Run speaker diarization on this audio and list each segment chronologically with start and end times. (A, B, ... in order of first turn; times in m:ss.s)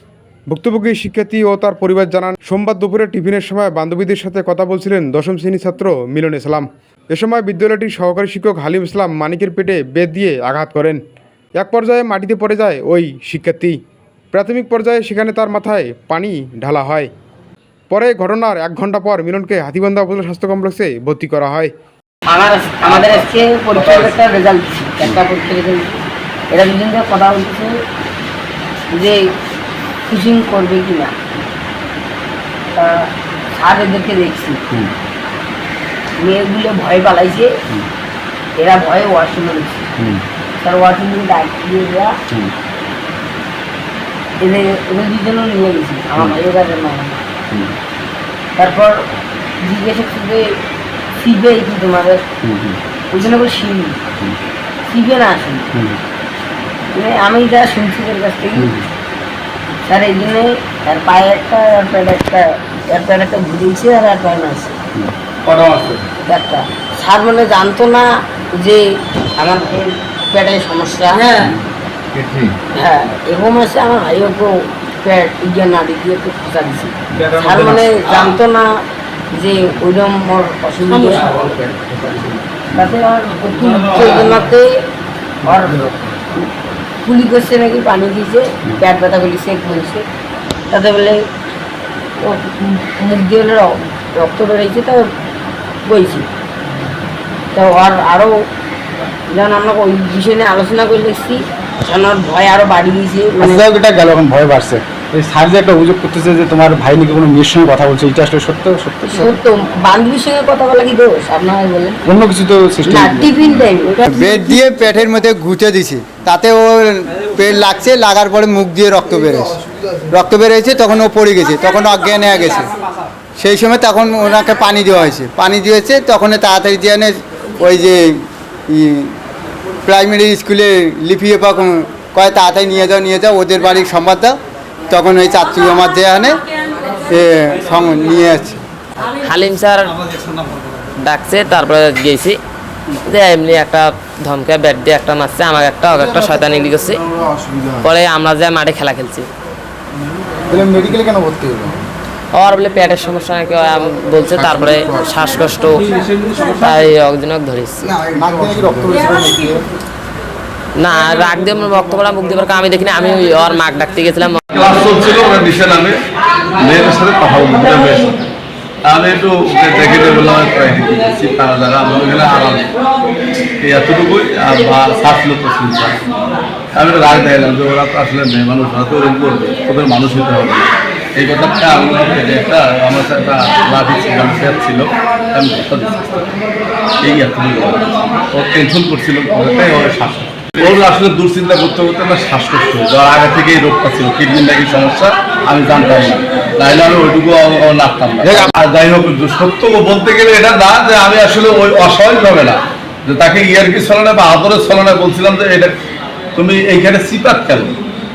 0:00.5-0:11.0 A
0:11.6-0:13.8 A
0:14.3-0:17.1 A
0:17.9-0:21.7 A
0:22.3-0:27.7 B
0:22.9-0:24.1 C
0:28.9-0:29.2 B
0:30.1-0:31.1 B
0:32.8-0:34.6 B
0:36.2-0:37.5 B
0:38.6-0:39.9 B
0:40.0-0:40.2 D
0:40.6-0:42.1 B
0:44.4-0:47.2 B
0:47.5-0:47.8 D
0:48.6-0:49.0 B
0:49.6-0:50.4 B
0:51.2-0:52.2 B
0:52.4-0:52.8 D
0:53.1-0:54.0 B
0:54.9-0:55.7 B
0:55.7-0:56.0 D
0:56.9-0:58.7 B
0:58.6-0:58.9 D
0:59.9-1:04.8 B
1:05.5-1:06.0 C
1:06.3-1:08.8 B
1:09.4-1:11.4 B
1:12.8-1:18.7 B
1:17.1-1:17.8 D
1:19.3-1:21.5 B
1:22.7-1:24.7 B
1:25.4-1:26.5 B
1:27.0-1:30.0 B
1:30.7-1:31.2 B
1:32.2-1:35.0 B
1:35.9-1:36.3 B
1:37.5-1:38.3 B
1:39.3-1:43.6 B
1:43.4-1:49.3 D
1:49.1-1:52.0 B
1:52.0-1:53.6 D
1:52.9-1:54.4 B
1:54.0-1:59.6 E
2:00.1-2:02.7 E
2:03.4-2:09.2 E
2:09.9-2:14.4 E
2:14.9-2:16.4 E
2:17.1-2:18.6 E
2:19.2-2:20.0 F
2:21.1-2:22.4 F
2:23.1-2:27.0 F
2:27.8-2:29.3 F
2:30.5-2:31.7 D
2:32.4-2:35.8 F
2:36.4-2:37.8 F
2:38.1-2:39.6 D
2:40.8-2:44.4 F
2:44.5-2:46.0 C
2:46.6-2:48.2 C
2:48.9-2:52.7 C
2:53.6-2:56.1 C
2:56.8-3:06.3 C
3:07.0-3:25.7 C
3:18.2-3:18.5 D
3:26.4-3:27.8 C